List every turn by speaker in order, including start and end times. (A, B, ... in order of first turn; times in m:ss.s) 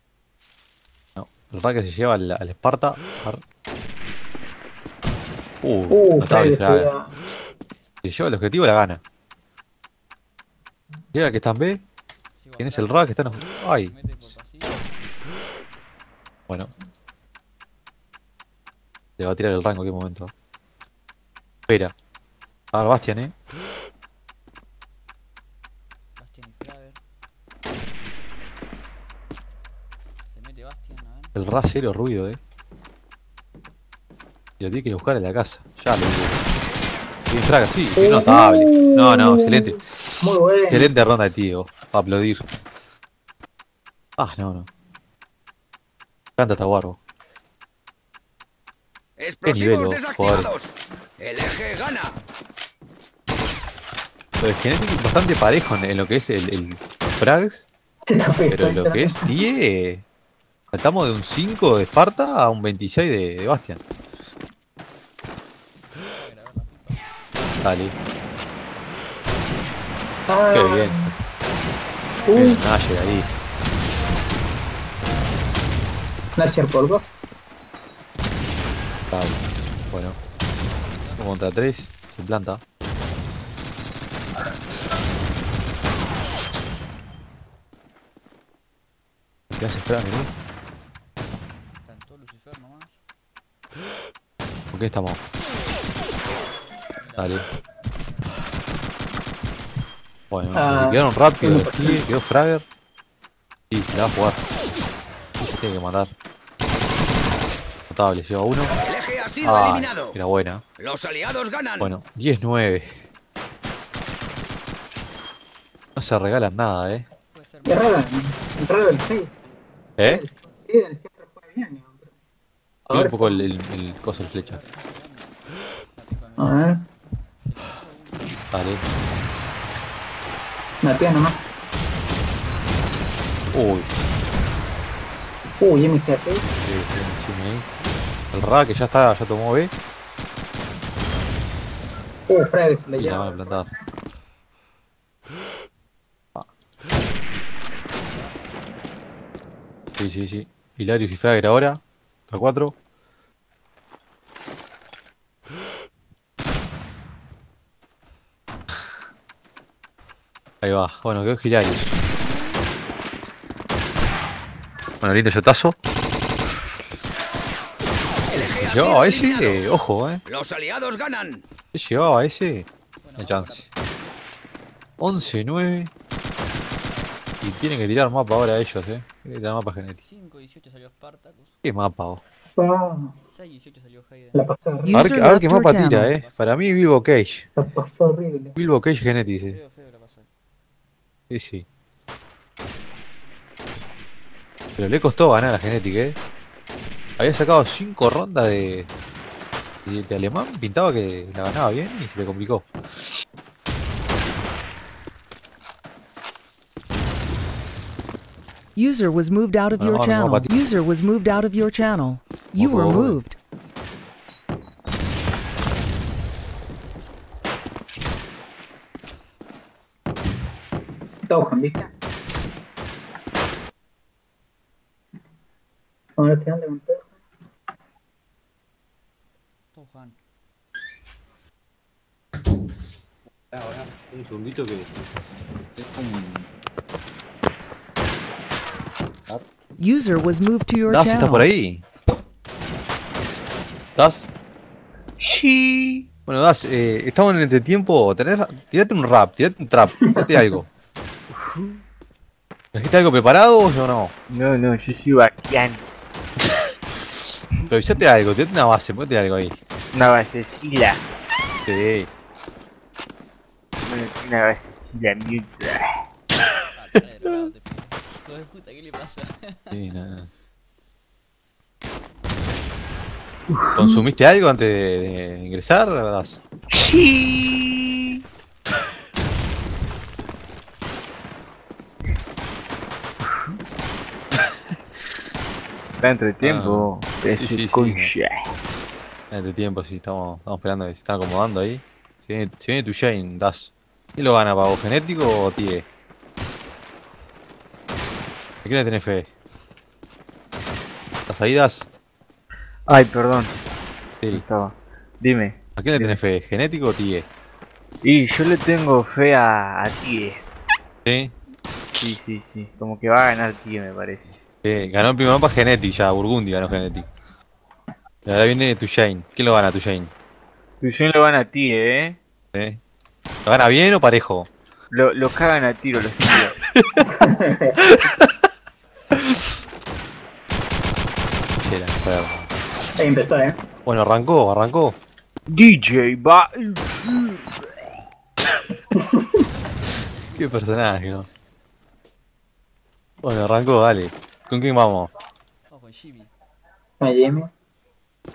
0:01.2-0:03.4 A
0:05.6-0:06.9 A
0:05.9-0:07.0 B
0:08.0-0:09.0 A
0:11.1-0:11.8 A
0:12.4-0:15.0 C
0:12.6-0:14.3 A
0:19.2-0:20.3 A
0:21.7-0:21.9 A
0:22.7-0:23.3 A
0:26.2-0:27.0 C
0:30.3-0:31.4 C
0:31.4-0:32.4 A
0:34.6-0:36.4 A
0:37.3-0:42.4 A
0:38.0-0:40.9 B
0:44.2-0:44.7 A
0:46.4-0:47.0 A
0:49.2-0:52.2 D
0:49.4-0:50.5 A
0:54.4-0:57.6 A
0:58.1-0:59.3 B
0:58.5-1:00.0 A
1:00.7-1:03.8 A
1:06.1-1:07.5 C
1:07.6-1:07.9 A
1:10.3-1:11.1 B
1:10.5-1:11.2 A
1:12.3-1:12.6 B
1:12.3-1:13.4 A
1:12.4-1:14.3 C
1:16.4-1:17.1 B
1:19.1-1:20.2 A
1:20.7-1:21.3 C
1:21.2-1:22.6 A
1:24.3-1:25.0 C
1:29.5-1:30.3 A
1:31.8-1:33.0 C
1:34.7-1:35.2 A
1:36.2-1:37.4 C
1:37.2-1:37.5 A
1:38.0-1:38.7 C
1:40.3-1:42.6 A
1:40.5-1:42.0 B
1:43.7-1:44.5 A
1:44.1-1:44.7 C
1:45.4-1:46.1 A
1:47.9-1:48.8 A
1:48.8-1:50.2 D
1:49.4-1:50.6 A
1:50.8-1:51.9 D
1:51.8-1:53.0 A
1:56.0-1:57.1 A
1:57.3-1:59.1 C
1:57.7-2:02.1 B
2:00.0-2:00.2 A
2:02.9-2:04.6 A
2:02.9-2:03.5 B
2:03.8-2:05.4 C
2:06.0-2:06.7 C
2:06.4-2:06.8 B
2:07.4-2:09.8 C
2:08.5-2:08.8 A
2:10.8-2:11.4 B
2:13.5-2:13.9 A
2:15.6-2:16.4 B
2:16.6-2:17.7 A
2:18.3-2:19.7 A
2:22.3-2:23.6 B
2:23.0-2:23.7 A
2:27.8-2:28.6 C
2:30.0-2:32.7 A
2:40.6-2:42.0 A
2:45.0-2:45.8 A
2:48.3-2:49.6 D
2:48.3-2:50.2 A
2:50.3-2:51.4 D
2:51.7-2:52.7 A
2:53.0-2:54.2 C
2:53.2-2:53.7 A
2:55.0-2:55.9 A
2:56.4-2:57.2 C
2:57.4-3:00.0 A
2:59.9-3:01.6 C
3:01.6-3:02.2 A
3:02.6-3:03.2 B
3:03.2-3:04.5 C
3:04.4-3:05.0 B
3:04.8-3:06.2 E
3:04.9-3:07.5 A
3:05.9-3:07.0 C
3:07.6-3:08.6 B
3:08.6-3:09.6 A
3:09.5-3:10.3 C
3:11.3-3:11.6 A
3:14.8-3:16.2 A
3:17.1-3:17.4 C
3:17.2-3:18.9 A
3:19.9-3:23.0 A
3:28.8-3:33.4 E
3:29.8-3:30.5 A
3:32.6-3:33.2 A
3:41.3-3:41.9 B
3:46.2-3:47.1 B
3:49.7-3:50.2 C
3:53.5-3:54.9 A
3:55.8-3:56.5 A
3:59.8-4:01.5 E
4:00.9-4:01.8 A
4:04.0-4:04.3 A
4:05.2-4:06.1 F
4:06.3-4:10.7 A
4:11.3-4:11.8 F
4:12.7-4:14.1 A
4:14.3-4:15.8 F
4:16.4-4:19.6 A
4:20.0-4:21.0 F
4:21.7-4:22.1 A
4:23.8-4:25.9 F
4:26.6-4:29.8 C
4:29.7-4:30.3 A
4:33.5-4:34.0 F
4:33.7-4:36.4 A
4:36.7-4:38.2 F
4:43.2-4:43.6 F
4:46.0-4:48.4 F
4:46.4-4:46.9 A
4:47.4-4:48.1 A
4:49.3-4:55.8 A
4:58.6-4:59.3 A
5:01.3-5:01.9 A
5:02.9-5:03.6 F
5:04.3-5:06.2 F
5:05.8-5:07.3 A
5:08.0-5:10.4 F
5:11.0-5:11.3 A
5:12.0-5:14.4 F
5:14.6-5:17.1 A
5:18.3-5:20.1 A
5:20.8-5:22.2 F
5:22.5-5:22.8 A
5:23.5-5:24.5 A
5:24.9-5:26.6 F
5:26.8-5:27.2 A
5:27.1-5:27.8 B
5:27.8-5:28.4 A
5:29.1-5:29.4 A
5:31.5-5:32.5 A
5:33.0-5:33.6 B
5:33.9-5:35.0 A
5:35.5-5:37.7 F
5:38.9-5:39.4 B
5:39.6-5:41.1 C
5:40.4-5:41.3 A
5:43.2-5:45.1 A
5:45.7-5:46.3 C
5:47.0-5:47.5 B